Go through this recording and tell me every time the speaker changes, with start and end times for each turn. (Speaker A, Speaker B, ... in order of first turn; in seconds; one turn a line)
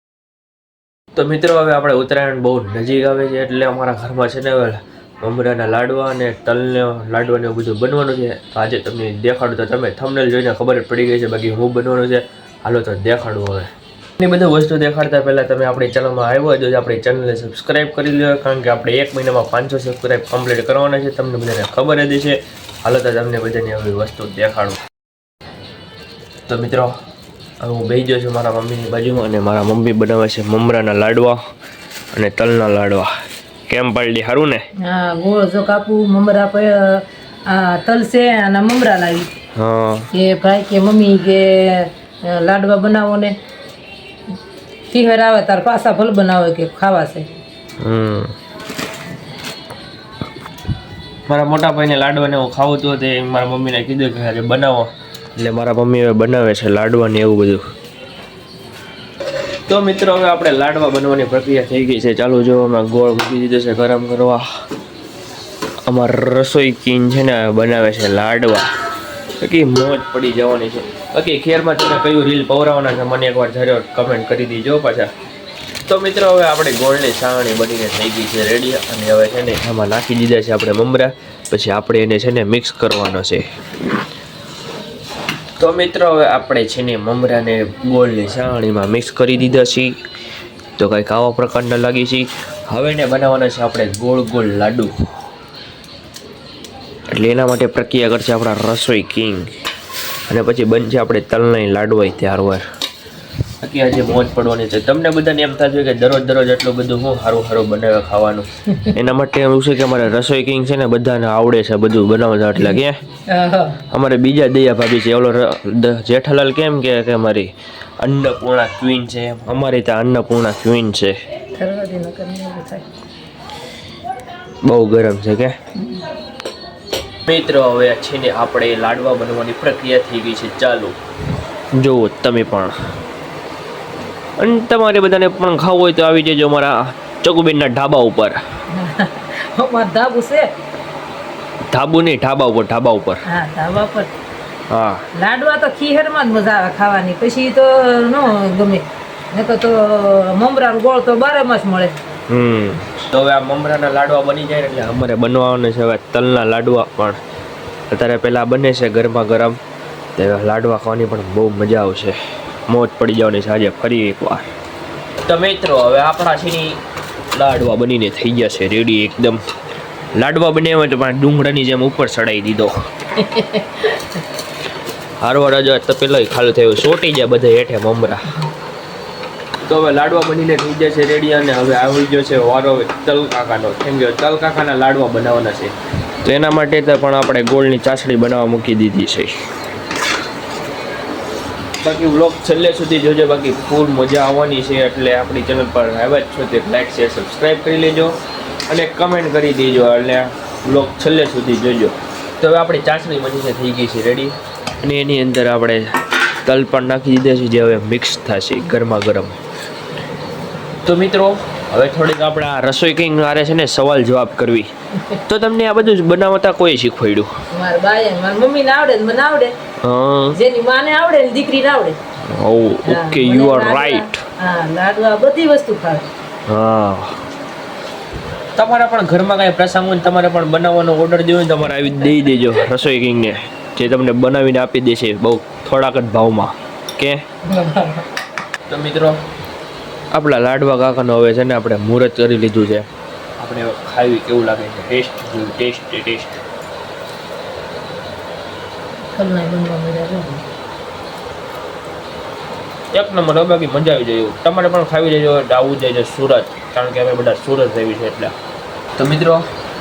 Speaker A: 1.1-24.8
Speaker A: 26.5-26.9
Speaker A: 27.6-31.4
Speaker A: 32.1-33.1
Speaker A: 33.7-34.6
Speaker B: 34.8-39.3
Speaker A: 39.5-40.1
Speaker B: 40.1-43.3
Speaker B: 44.9-47.3
Speaker A: 47.8-48.3
Speaker A: 51.3-57.6
Speaker A: 59.7-64.4
Speaker A: 65.9-68.7
Speaker A: 69.4-75.1
Speaker A: 75.9-83.4
Speaker A: 85.6-90.0
Speaker A: 90.8-94.9
Speaker A: 97.1-99.5
Speaker A: 100.3-102.6
Speaker A: 103.6-113.0
Speaker B: 113.3-113.8
Speaker A: 113.9-121.2
Speaker B: 121.5-122.8
Speaker A: 124.6-125.6
Speaker A: 127.2-131.0
Speaker A: 131.7-132.7
Speaker A: 134.4-138.4
Speaker B: 138.7-140.5
Speaker A: 141.7-143.2
Speaker B: 143.3-144.1
Speaker A: 144.7-145.0
Speaker B: 145.2-151.9
Speaker A: 152.3-157.2
Speaker A: 157.9-159.6
Speaker A: 160.2-162.2
Speaker A: 162.7-164.5
Speaker A: 165.2-166.8
Speaker A: 167.3-169.4
Speaker A: 170.2-172.8
Speaker B: 173.2-174.0
Speaker A: 175.2-178.4
Speaker A: 179.7-189.3
Speaker A: 191.8-198.2
Speaker A: 198.7-209.4
Speaker A: 210.8-214.7
Speaker A: 215.2-217.3
Speaker B: 217.5-219.5
Speaker A: 219.8-220.4
Speaker B: 220.3-222.0
Speaker A: 222.2-224.2
Speaker B: 222.8-226.1
Speaker A: 226.5-227.2
Speaker A: 228.6-237.2
Speaker B: 237.5-238.0
Speaker A: 238.7-239.2
Speaker A: 240.1-242.9
Speaker A: 243.4-246.4
Speaker B: 249.1-250.4
Speaker A: 252.9-258.4
Speaker A: 259.0-259.4